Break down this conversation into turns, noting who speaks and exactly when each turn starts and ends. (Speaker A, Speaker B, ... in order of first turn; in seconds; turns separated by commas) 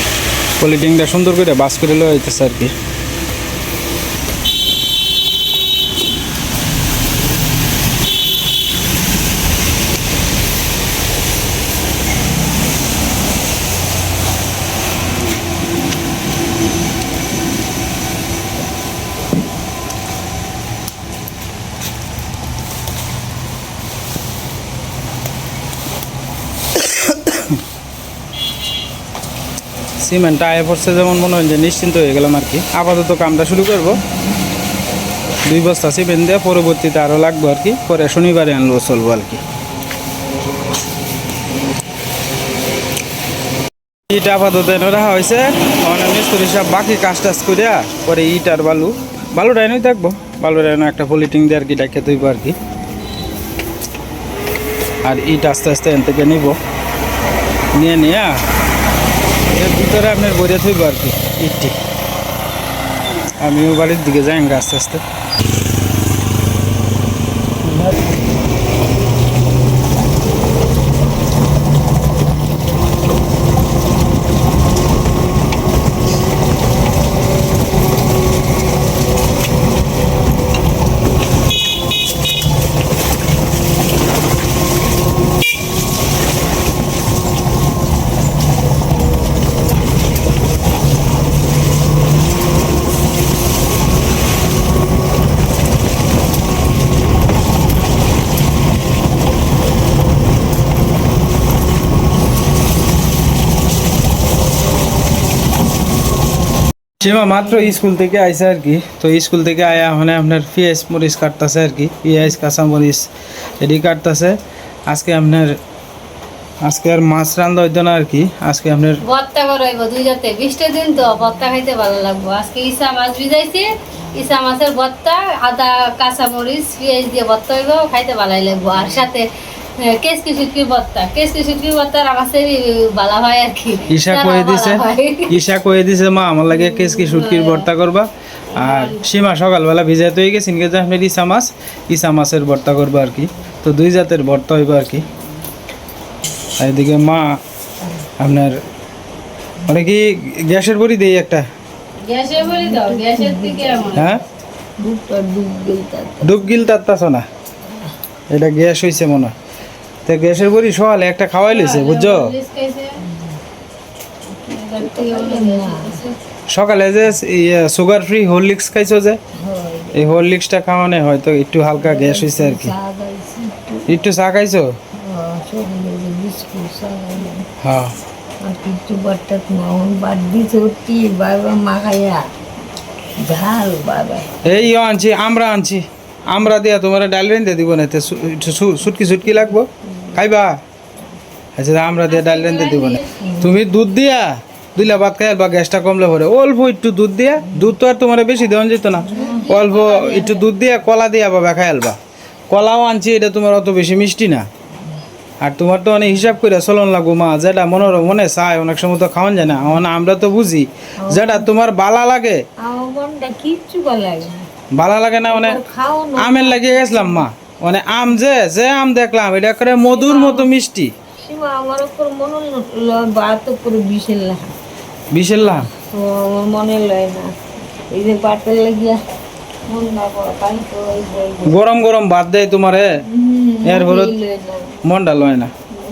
Speaker A: 0.6-2.7, Speaker A: 30.0-34.0, Speaker A: 35.5-39.4, Speaker A: 44.1-52.6, Speaker A: 55.0-56.6, Speaker A: 57.7-58.4, Speaker A: 59.5-61.8, Speaker A: 63.4-65.0, Speaker A: 67.7-67.9, Speaker A: 107.0-113.1, Speaker A: 113.6-114.4, Speaker A: 114.9-115.6, Speaker A: 116.6-119.0, Speaker B: 119.0-129.3, Speaker B: 129.8-135.3, Speaker A: 133.9-145.1, Speaker B: 136.5-137.7, Speaker B: 138.5-139.1, Speaker A: 146.6-147.4, Speaker A: 148.2-148.6, Speaker A: 149.7-151.5, Speaker B: 152.0-154.1, Speaker C: 152.4-154.2, Speaker A: 153.9-154.2, Speaker C: 154.8-156.4, Speaker A: 156.2-157.2, Speaker A: 158.3-159.3, Speaker A: 160.1-162.3, Speaker B: 161.5-163.0, Speaker C: 163.1-163.4, Speaker B: 164.4-166.2, Speaker C: 164.8-166.0, Speaker A: 166.5-169.2, Speaker C: 169.4-170.1, Speaker A: 169.9-172.7, Speaker C: 171.8-173.9, Speaker A: 173.9-174.7, Speaker C: 175.0-177.4, Speaker A: 177.6-177.9, Speaker C: 178.4-182.3, Speaker C: 183.2-184.6, Speaker A: 184.4-190.6, Speaker A: 191.6-202.0, Speaker B: 192.1-193.2, Speaker C: 193.2-193.6, Speaker C: 199.1-199.4, Speaker B: 199.5-200.4, Speaker A: 202.5-204.5, Speaker A: 205.4-212.4, Speaker C: 211.0-211.5, Speaker C: 212.6-214.5, Speaker A: 214.7-215.6, Speaker C: 215.3-217.2, Speaker A: 216.2-220.9, Speaker C: 219.8-220.5, Speaker C: 221.2-224.5, Speaker A: 225.1-225.7, Speaker C: 225.7-227.3, Speaker C: 227.9-229.0, Speaker C: 229.7-231.6, Speaker A: 231.4-233.0, Speaker C: 233.0-234.8, Speaker A: 233.6-234.2, Speaker A: 234.8-235.5